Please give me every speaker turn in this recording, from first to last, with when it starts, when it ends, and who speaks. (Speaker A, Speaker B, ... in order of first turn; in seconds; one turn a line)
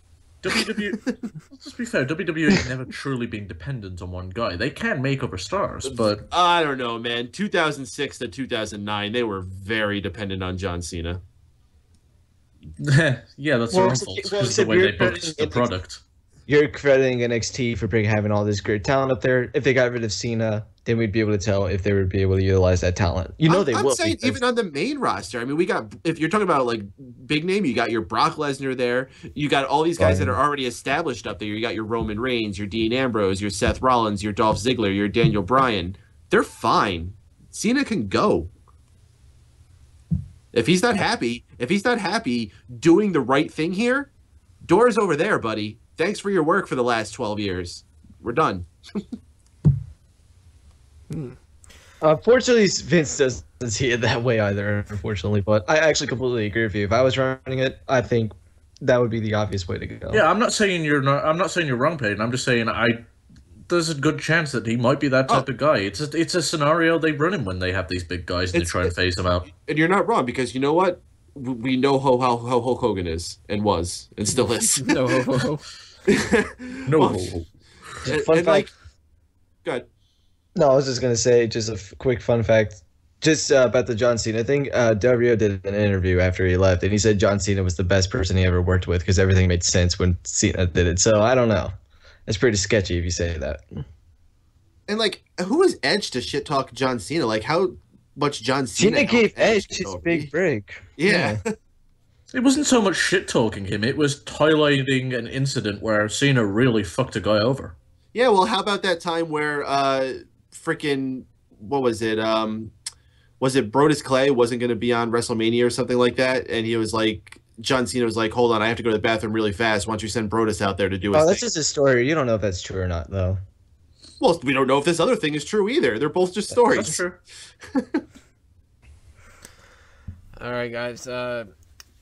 Speaker A: 0.4-6.3
Speaker B: 5.8-11.2
Speaker A: 12.8-16.0
Speaker C: 13.7-15.7
Speaker C: 16.5-24.4
Speaker B: 23.5-38.5
Speaker C: 30.0-30.4
Speaker B: 40.5-44.1
Speaker B: 44.6-49.1
Speaker D: 51.1-51.4
Speaker C: 52.0-60.2
Speaker A: 60.1-63.0
Speaker A: 63.7-69.5
Speaker B: 68.5-68.9
Speaker B: 69.5-75.1
Speaker D: 74.4-75.7
Speaker B: 76.1-77.3
Speaker A: 76.9-77.5
Speaker C: 78.0-78.7
Speaker B: 78.0-78.7
Speaker C: 80.5-91.7
Speaker C: 92.3-93.6
Speaker B: 94.9-100.3
Speaker C: 98.8-101.4
Speaker B: 101.0-101.5
Speaker A: 102.3-107.8
Speaker B: 108.1-112.7
Speaker B: 113.4-121.4
Speaker C: 121.1-123.4
Speaker B: 124.2-127.0
Speaker A: 126.5-127.2
Speaker B: 127.7-128.0
Speaker D: 130.3-131.5